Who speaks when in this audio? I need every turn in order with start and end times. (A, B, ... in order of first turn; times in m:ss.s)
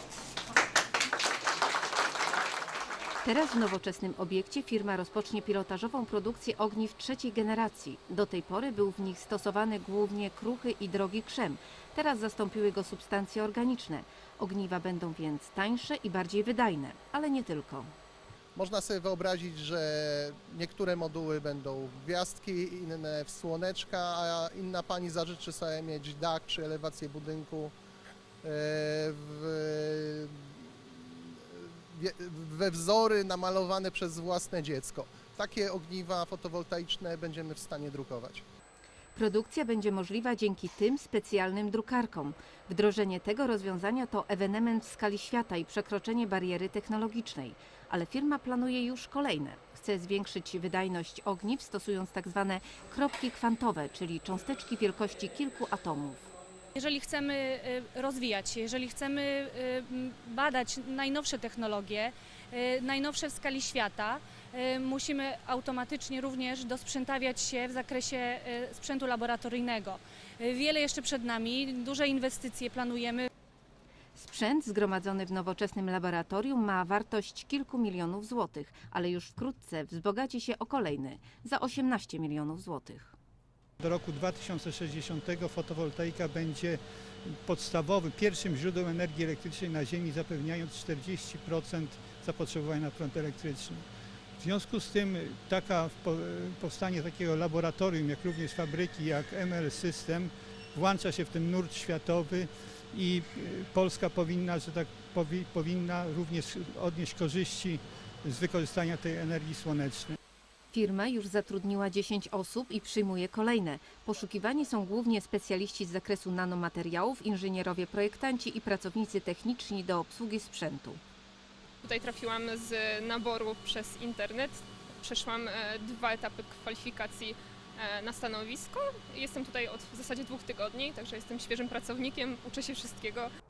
0:03.2-0:17.9 A
0:18.6-0:27.8 B
0:28.4-0:38.4 B
0:39.2-0:56.3 A
0:56.8-1:13.3 C
1:14.2-1:23.2 A
1:23.8-1:33.8 D
1:34.4-1:50.2 D
1:50.7-2:01.0 A
2:01.8-2:13.3 E